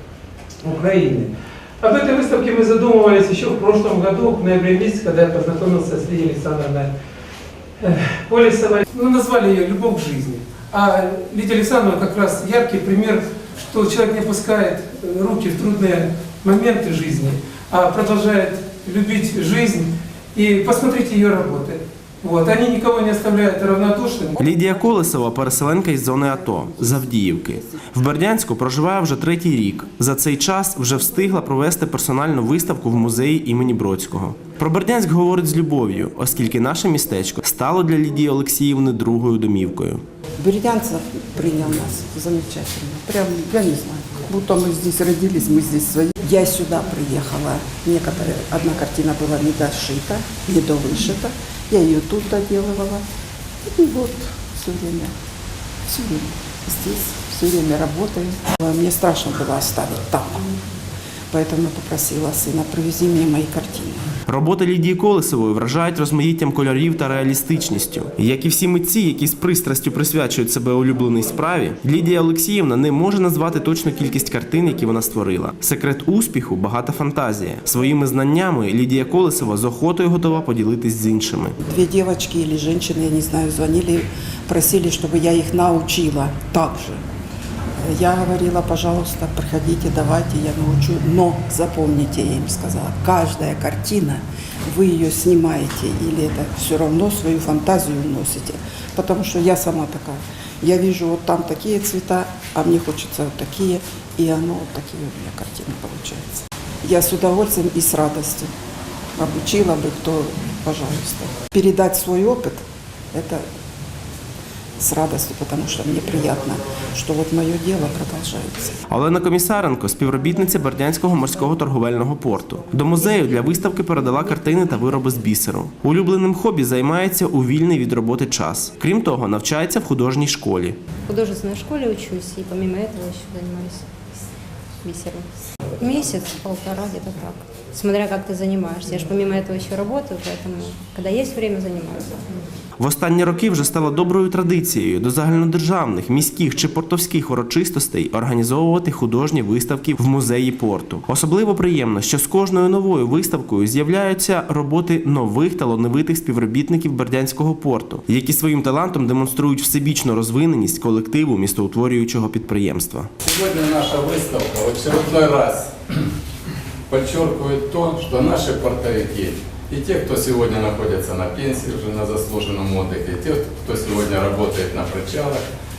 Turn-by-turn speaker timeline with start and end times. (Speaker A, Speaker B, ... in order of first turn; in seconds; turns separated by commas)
Speaker A: 0.6-6.9, Speaker A: 7.8-24.4, Speaker B: 24.4-40.0, Speaker C: 40.4-53.0, Speaker C: 53.7-55.1, Speaker C: 55.9-60.5, Speaker C: 61.3-64.1, Speaker B: 64.3-81.5, Speaker C: 81.7-87.0, Speaker C: 87.8-108.5, Speaker C: 109.2-113.4, Speaker C: 114.8-118.7, Speaker B: 118.9-130.8, Speaker D: 121.4-121.7, Speaker D: 122.3-125.1, Speaker D: 131.1-133.8, Speaker D: 134.8-142.2, Speaker B: 142.8-163.1, Speaker E: 163.2-166.1, Speaker E: 166.9-175.4